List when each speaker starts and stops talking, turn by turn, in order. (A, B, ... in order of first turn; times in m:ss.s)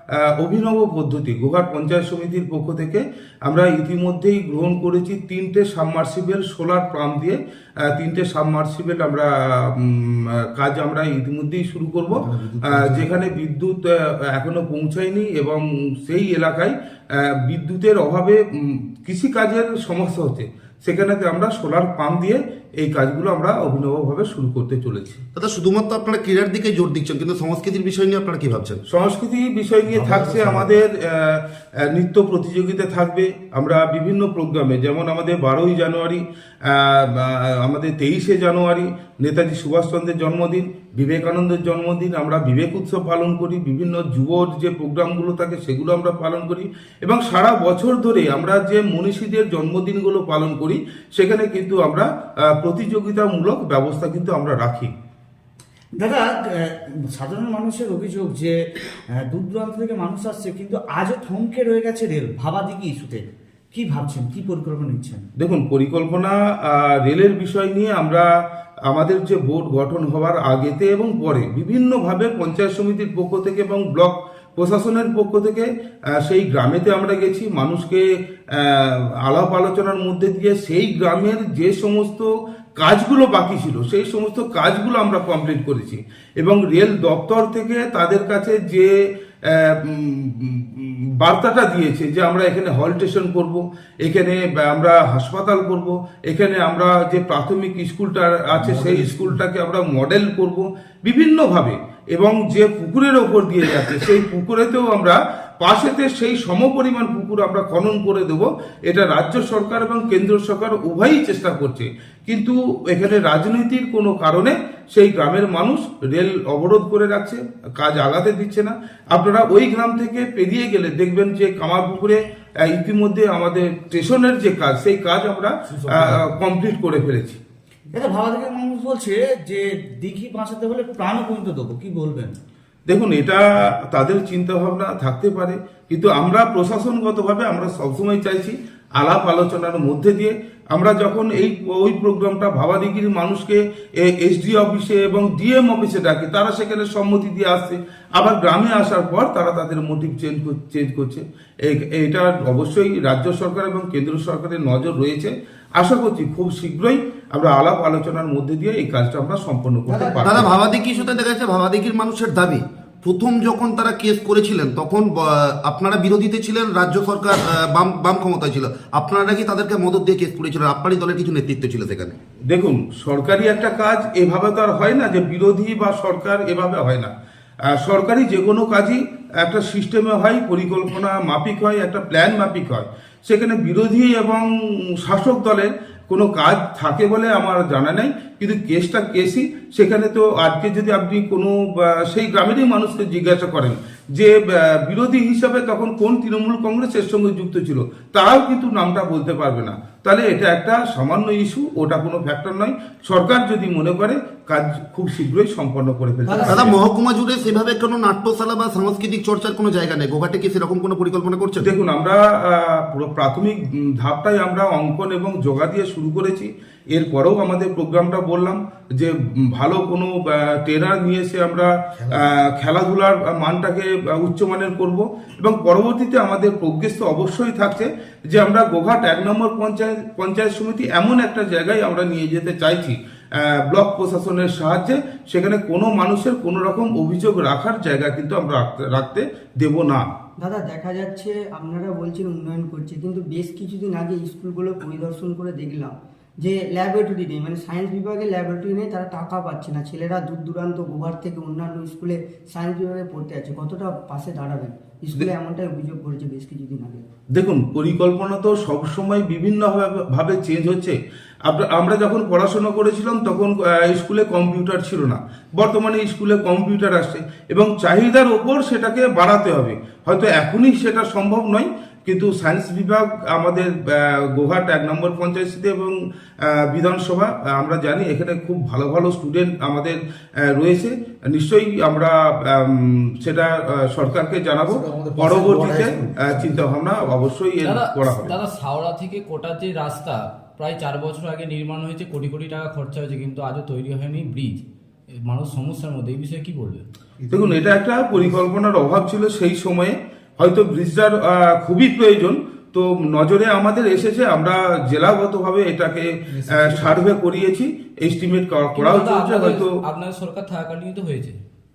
0:00.2-0:25.2 A
0:12.2-0:13.2 B
0:25.4-0:28.8 C
0:28.9-0:54.9 A
0:29.9-0:30.7 B
0:56.0-0:58.6 B
0:59.1-1:05.3 B
1:05.4-1:08.3 A
1:08.9-1:18.0 A
1:18.6-1:28.9 A
1:29.5-2:07.4 A
1:38.5-1:39.4 B
2:05.7-2:06.3 B
2:07.9-2:12.4 B
2:12.9-2:40.5 A
2:40.0-2:40.3 B
2:40.1-2:52.2 C
2:52.5-2:57.1 A
2:57.7-3:04.5 A
3:05.0-3:26.8 A
3:26.3-3:26.6 D
3:26.4-3:31.7 C
3:31.6-4:00.0 A
4:00.4-4:17.0 D
4:17.3-4:36.0 A
4:36.5-4:48.3 A
4:44.7-4:46.6 B
4:47.6-4:56.9 E
4:57.2-4:57.6 B
4:57.3-5:09.7 A
5:06.4-5:07.0 B
5:08.8-5:11.4 E